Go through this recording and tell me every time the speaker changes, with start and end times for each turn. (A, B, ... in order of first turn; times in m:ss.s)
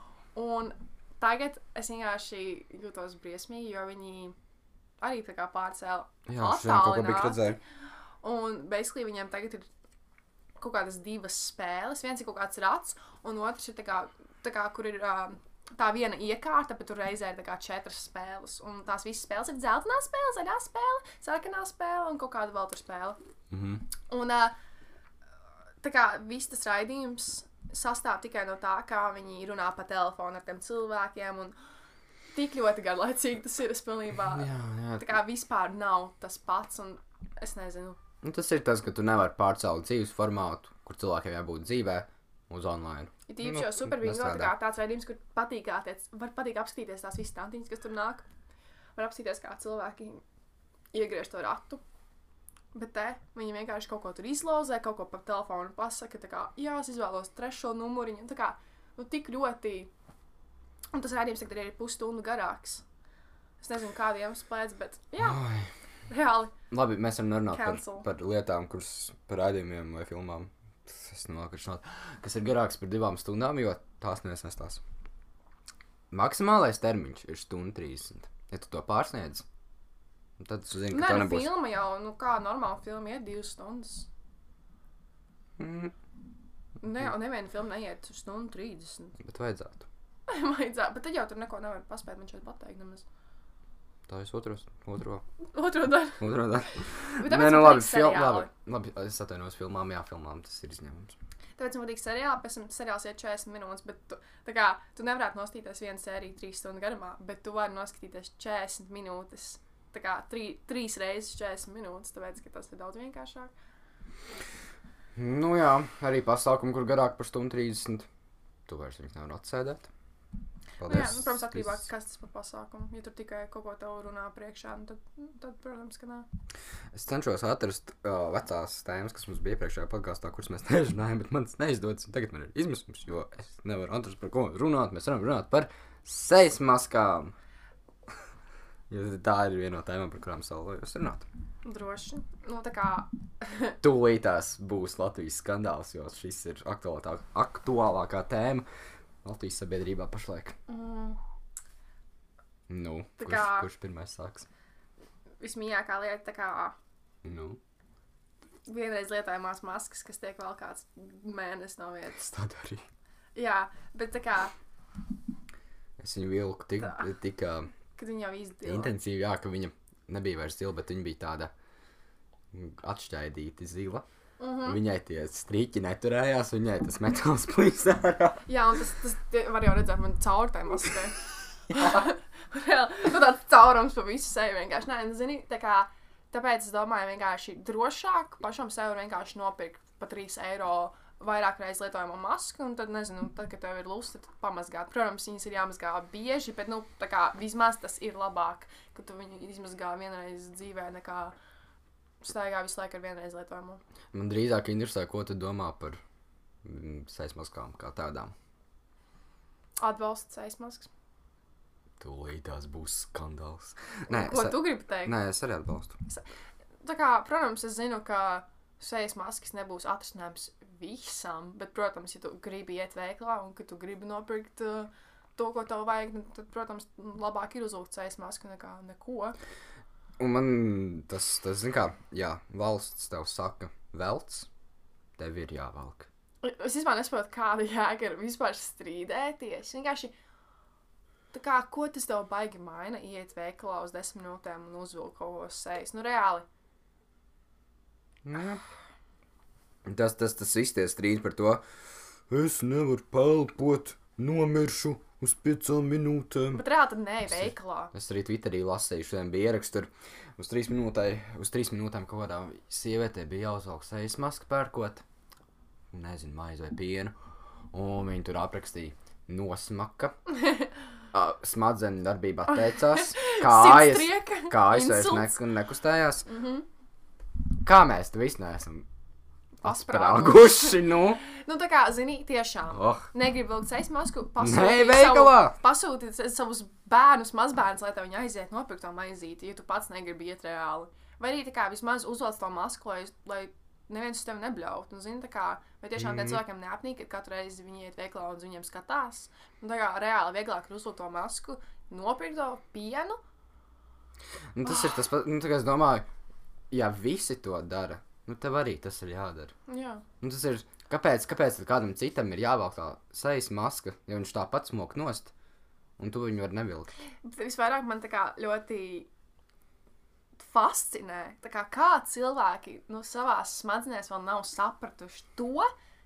0:00.3-0:04.4 A
0:05.0-0:07.5 A
0:06.3-0:07.6 B
0:08.2-0:09.7 A
0:10.6-0:23.2 A
0:23.5-0:23.8 B
0:24.1-0:24.6 A
0:25.8-0:31.6 A
0:32.3-0:34.5 A
0:34.3-0:35.1 B
0:35.0-0:38.0 A
0:38.2-0:44.6 B
0:43.3-0:48.3 A
0:49.0-0:50.2 A
0:50.9-0:51.8 A
0:52.7-0:59.9 A
1:00.9-1:02.8 A
1:03.6-1:05.4 A
1:05.2-1:05.7 B
1:06.1-1:06.6 A
1:06.7-1:14.8 B
1:07.5-1:08.1 A
1:16.1-1:19.4 B
1:20.4-1:21.5 B
1:20.9-1:24.1 A
1:25.6-1:26.0 B
1:26.8-1:29.2 A
1:29.2-1:29.9 B
1:30.3-1:33.0 A
1:34.1-1:35.2 B
1:35.5-1:36.2 A
1:36.2-1:41.2 B
1:37.2-1:38.5 A
1:41.6-1:53.5 A
1:55.2-1:58.1 B
1:58.7-1:59.9 B
2:00.8-2:01.8 B
2:00.8-2:06.3 A
2:06.9-2:17.4 B
2:18.9-2:21.3 B
2:21.6-2:23.8 A
2:23.8-2:28.7 B
2:29.2-2:30.6 B
2:30.7-2:31.2 A
2:32.7-2:34.5 B
2:33.2-2:33.7 A
2:35.4-2:36.8 A
2:37.2-2:37.6 B
2:38.7-2:42.2 A
2:42.2-2:42.9 B
2:43.4-2:44.5 A
2:46.0-2:47.7 B
2:48.0-2:48.9 A
2:48.6-2:51.5 B
2:52.5-2:54.0 B
2:54.4-2:54.8 A
2:54.6-2:58.5 B
2:58.5-3:21.4 A
3:22.2-3:23.8 A
3:24.1-3:26.0 B
3:26.6-3:28.3 B
3:29.8-3:30.9 A
3:32.0-3:36.0 B
3:34.1-3:35.2 A
3:36.8-3:49.4 A
3:50.2-3:54.5 B
3:55.2-3:56.1 B
3:56.4-4:00.1 A
4:01.3-4:06.5 A
4:08.2-4:08.6 B
4:09.9-4:11.6 B
4:12.3-4:16.6 B
4:16.5-4:17.9 A
4:17.3-4:25.0 B
4:25.9-4:27.2 B
4:27.7-4:30.2 B
4:31.1-4:36.3 B
4:32.9-4:35.4 A
4:36.3-4:36.6 A
4:37.6-4:38.9 B
4:39.6-5:03.2 A
4:39.6-4:41.2 B
4:42.7-4:43.1 B
4:44.4-4:45.6 B
4:56.0-4:56.4 B
5:04.5-5:06.1 B
5:06.7-5:09.5 B
5:09.7-5:10.0 A
5:10.2-5:15.3 B
5:16.0-5:16.9 B
5:17.2-5:19.1 A
5:20.4-5:25.7 A